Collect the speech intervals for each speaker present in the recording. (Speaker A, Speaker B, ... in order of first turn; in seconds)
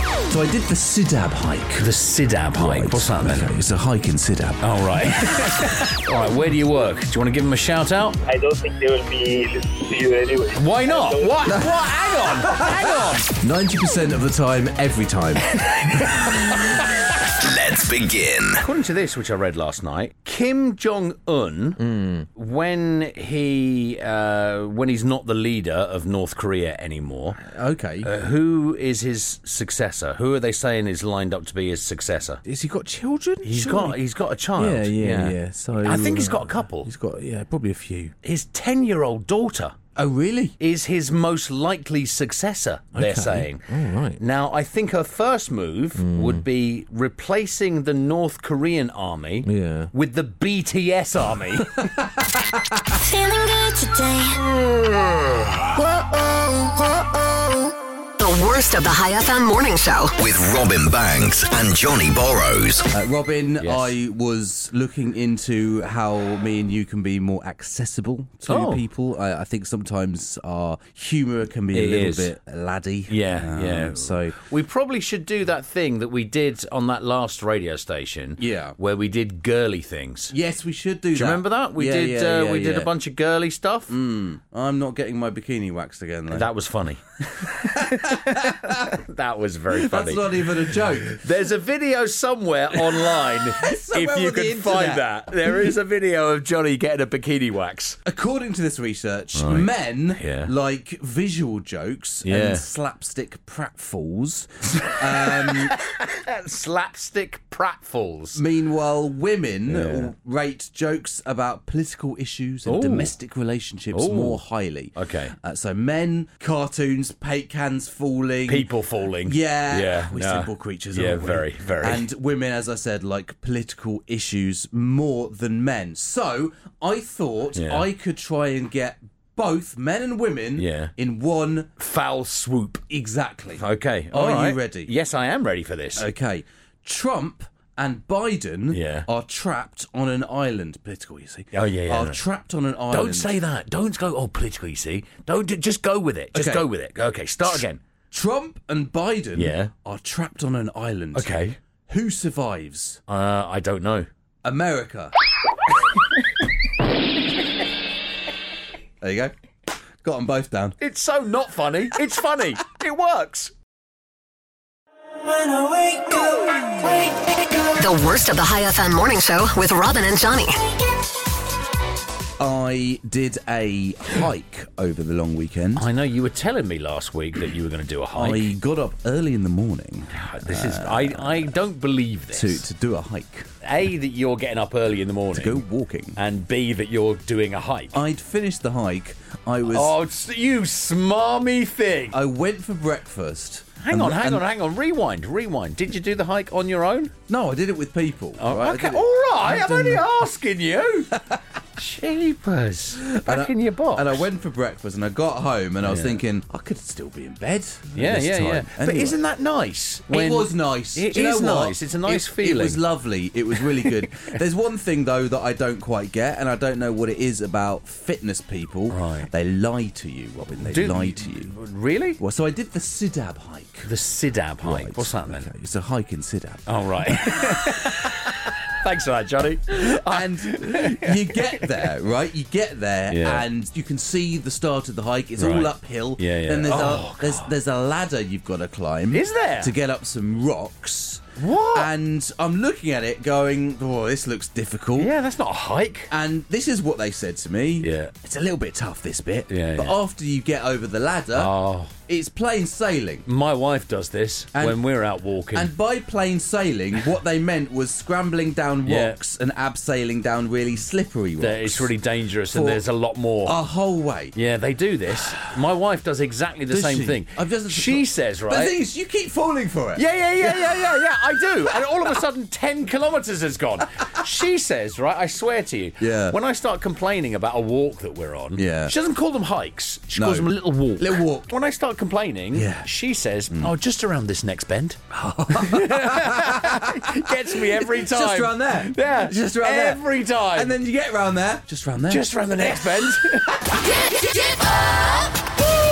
Speaker A: 0.3-1.9, 2.5-4.7, 12.2-15.5, 21.8-22.3, 27.4-28.1, 32.4-34.0, 34.5-38.1, 39.9-40.6, 42.9-44.2, 45.9-46.5, 49.4-49.9, 51.6-53.0, 62.9-74.4, 78.4-78.8, 80.3-82.9, 83.9-86.5, 87.4-89.0, 89.7-91.2, 92.7-95.7, 98.0-105.8, 108.3-131.7, 132.9-134.9, 135.9-143.4, 146.3-146.7, 148.1-153.0, 154.4-155.1, 159.0-159.3, 160.0-160.8, 172.4-175.8, 178.2-181.5, 182.3-183.5, 185.3-186.2, 187.9-189.9, 192.1-194.4, 197.3-200.1, 201.1-201.4, 202.9-209.2, 210.1-221.5, 222.2-223.9, 224.6-226.6, 227.3-227.5, 229.7-245.1, 246.1-253.2, 254.5-254.8, 255.5-261.9, 262.5-262.8, 263.4-264.3, 266.7-270.7, 276.0-276.4, 278.5-278.9, 280.1-281.5, 282.5-282.9, 285.1-292.8, 293.6-294.6
Speaker B: 1.8-3.5, 4.6-8.2, 10.6-13.3, 18.6-21.8, 22.3-27.4, 28.0-32.4, 33.4-36.9, 38.2-39.8, 40.6-43.6, 44.2-51.9, 63.6-63.9, 68.5-68.8, 71.7-72.3, 73.1-80.3, 81.1-84.0, 86.3-98.0, 99.3-100.5, 102.2-102.6, 104.8-108.4, 109.7-110.1, 112.6-113.1, 113.9-114.4, 114.9-115.3, 118.5-122.1, 127.5-127.9, 130.6-130.9, 131.8-132.8, 133.6-136.1, 138.7-139.1, 141.5-142.2, 142.9-147.8, 149.3-149.7, 151.1-151.6, 153.1-154.1, 160.8-163.5, 175.8-178.5, 180.1-182.7, 183.6-185.6, 186.2-188.0, 189.7-192.2, 193.8-197.1, 198.4-201.2, 201.8-204.2, 205.8-206.2, 207.9-212.9, 218.9-219.3, 220.7-222.2, 223.8-225.5, 226.7-231.9, 233.1-233.4, 235.4-237.5, 239.1-239.7, 241.4-241.9, 244.9-246.1, 247.8-248.1, 249.5-249.9, 251.3-251.9, 253.2-255.7, 258.8-259.1, 261.4-263.6, 264.3-268.8, 269.9-290.8, 292.1-293.6
Speaker C: 8.2-11.6
Speaker D: 17.3-18.6, 60.2-62.9
Speaker E: 53.0-54.4, 165.2-167.7
Speaker F: 58.2-60.1, 167.8-170.6